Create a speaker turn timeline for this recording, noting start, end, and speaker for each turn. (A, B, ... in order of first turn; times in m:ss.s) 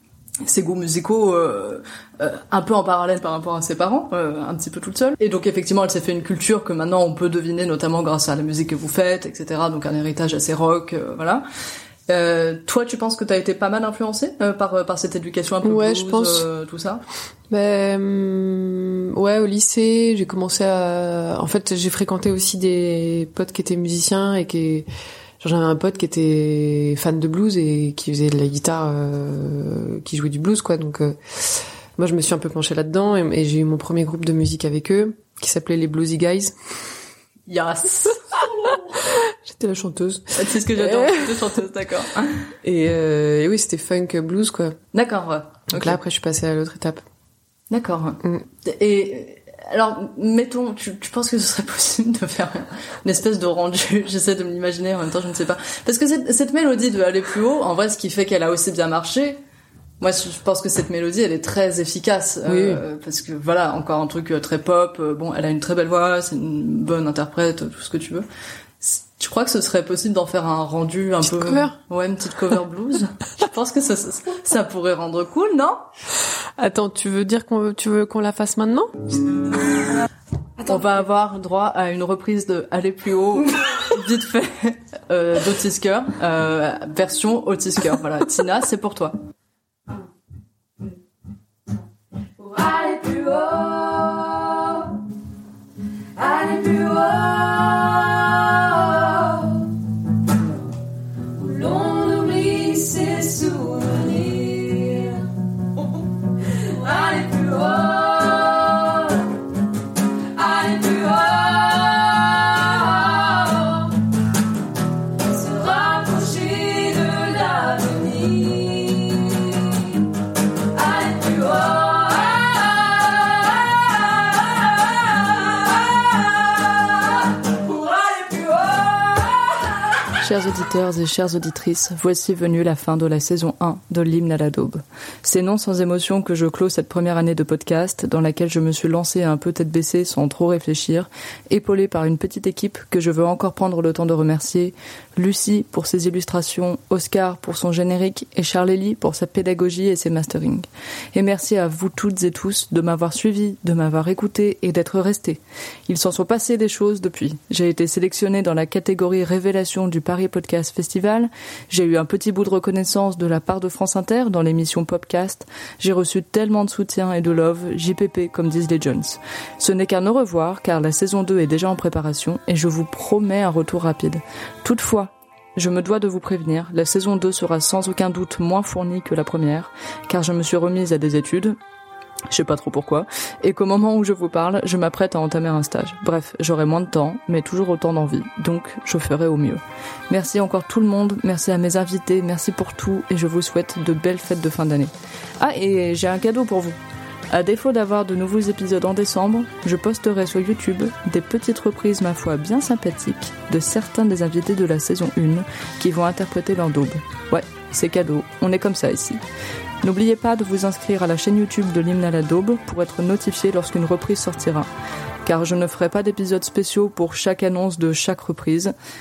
0:00.4-0:11.4 A
0:12.1-0:17.0 A
0:15.6-0:16.5 B
0:17.5-0:24.9 B
0:25.4-0:36.5 B
0:37.5-0:38.2 A
0:38.8-0:41.5 B
0:40.3-0:42.5 A
0:42.6-0:44.8 B
0:44.9-0:46.0 A
0:45.7-0:47.0 B
0:47.7-0:59.4 A
1:00.0-1:08.2 A
1:02.4-1:02.8 B
1:08.8-1:15.8 A
1:11.2-1:11.8 B
1:16.6-1:19.1 B
1:20.6-1:29.2 A
1:32.4-1:35.0 C
1:36.2-1:39.8 C
1:41.3-1:45.3 C
1:46.4-1:49.4 C
1:50.3-1:54.0 C
1:55.2-2:00.0 C
2:00.6-2:09.5 C
2:10.2-3:01.6 A
3:02.3-3:16.8 A
3:17.3-3:29.2 A
3:29.8-3:34.7 A
3:35.2-3:38.7 A